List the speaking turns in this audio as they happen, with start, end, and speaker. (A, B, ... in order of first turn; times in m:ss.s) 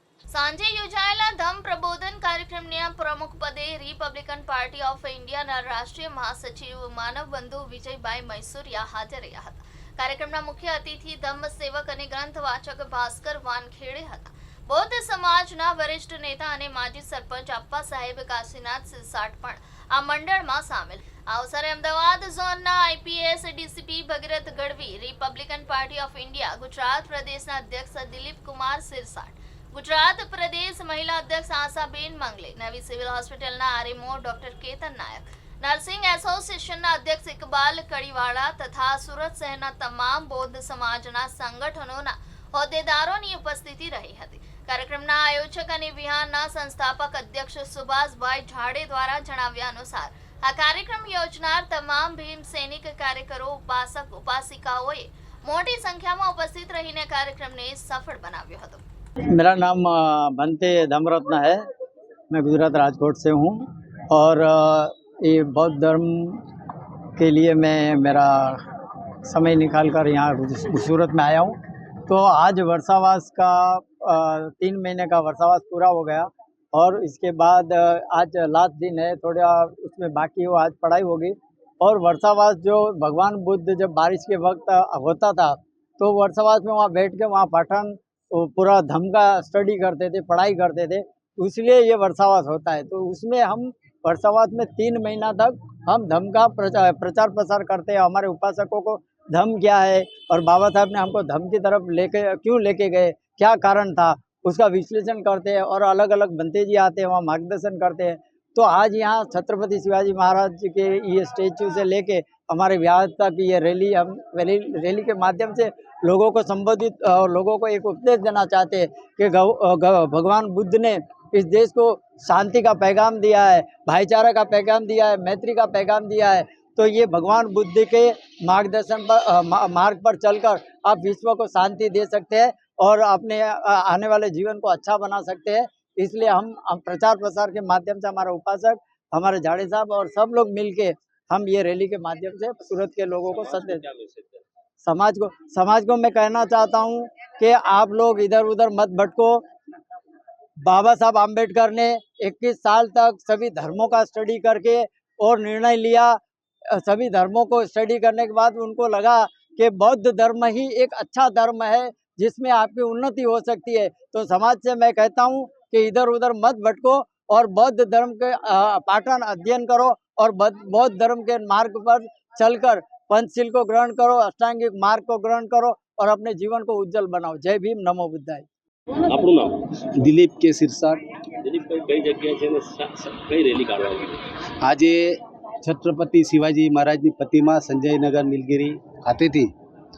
0:00.3-0:58.8 A
0:59.3-1:01.6 B
1:02.3-1:06.4 B
1:07.2-1:08.6 B
1:09.2-1:11.6 B
1:12.1-2:23.8 B
2:23.3-2:24.4 C
2:24.8-2:29.4 B
2:30.7-2:36.2 B
2:36.7-2:58.5 B
2:59.0-2:59.7 C
2:59.9-3:01.0 D
3:01.4-3:04.2 C
3:04.6-3:09.5 D